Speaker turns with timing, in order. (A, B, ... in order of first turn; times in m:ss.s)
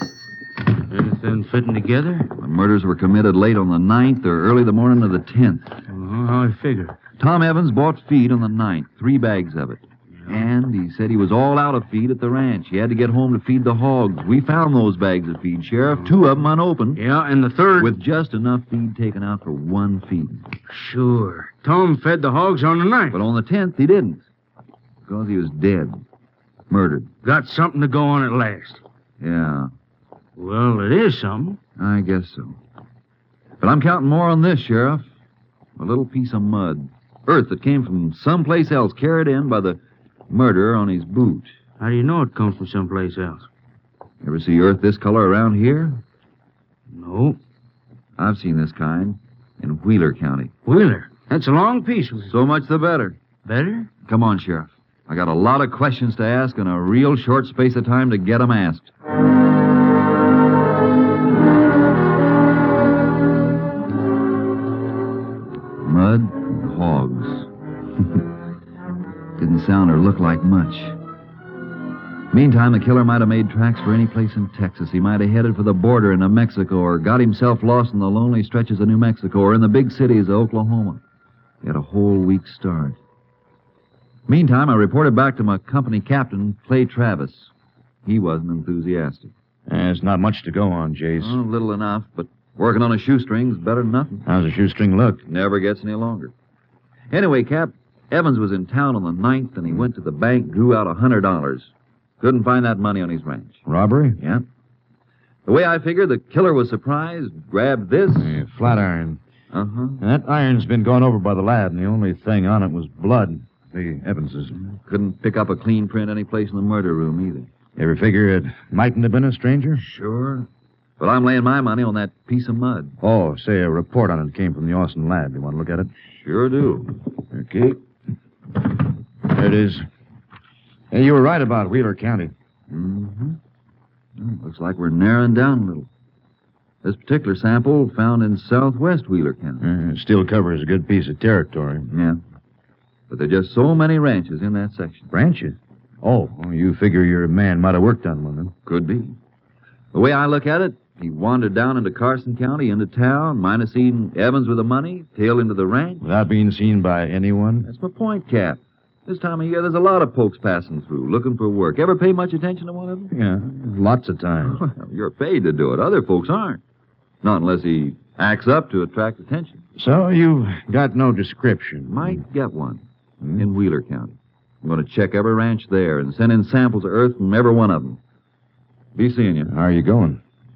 0:00.9-0:02.3 A
0:02.4-0:05.7 B
0:05.9-0:07.0 A
0:07.2-0:17.0 B
0:10.2-0:10.5 A
0:17.0-0:17.9 A
0:17.8-0:20.5 B
0:20.7-0:23.2 A
0:23.1-0:24.2 B
0:25.1-0:26.0 B
0:26.7-0:27.1 B
0:27.2-0:28.8 A
0:29.2-0:29.7 B
0:30.4-0:31.6 A
0:31.8-0:32.6 B
0:33.6-0:35.1 B
0:35.8-0:41.5 B
0:41.8-0:43.5 A
0:44.2-0:46.0 B
0:46.9-0:47.4 A
0:48.2-0:50.5 B
0:50.7-0:52.3 A
0:52.3-0:53.2 B
0:53.5-0:53.9 A
0:54.0-0:58.9 B
1:05.8-1:07.5 B
1:09.4-1:11.0 B
1:12.3-1:21.0 B
1:21.6-1:23.0 B
1:24.3-1:27.5 B
1:28.0-1:29.3 B
1:29.7-1:31.4 C
1:31.2-1:34.3 B
1:34.2-1:35.2 C
1:35.2-1:36.3 B
1:37.1-1:43.6 B
1:43.7-1:44.2 C
1:44.2-1:44.4 B
1:45.5-1:48.4 B
1:48.2-1:49.2 C
1:49.5-1:50.0 B
1:50.0-1:54.6 C
1:54.6-1:57.5 B
1:57.8-1:59.8 C
1:59.8-2:00.5 B
2:01.0-2:03.0 B
2:03.0-2:05.9 C
2:06.1-2:07.0 B
2:07.3-2:07.8 C
2:09.3-2:09.8 C
2:10.9-2:12.3 C
2:12.7-2:13.4 B
2:14.2-2:15.9 B
2:16.8-2:19.7 B
2:19.6-2:21.9 C
2:21.9-2:22.2 B
2:23.1-2:25.1 B
2:25.1-2:28.5 C
2:28.7-2:29.2 B
2:29.9-2:36.0 B
2:36.0-2:37.7 C
2:37.6-2:43.1 B
2:43.1-2:44.7 C
2:44.5-2:46.6 B
2:47.2-2:49.6 B
2:49.8-2:52.2 C
2:51.9-2:52.8 B
2:53.4-2:58.0 B
2:59.0-2:59.5 B
2:59.5-3:00.2 C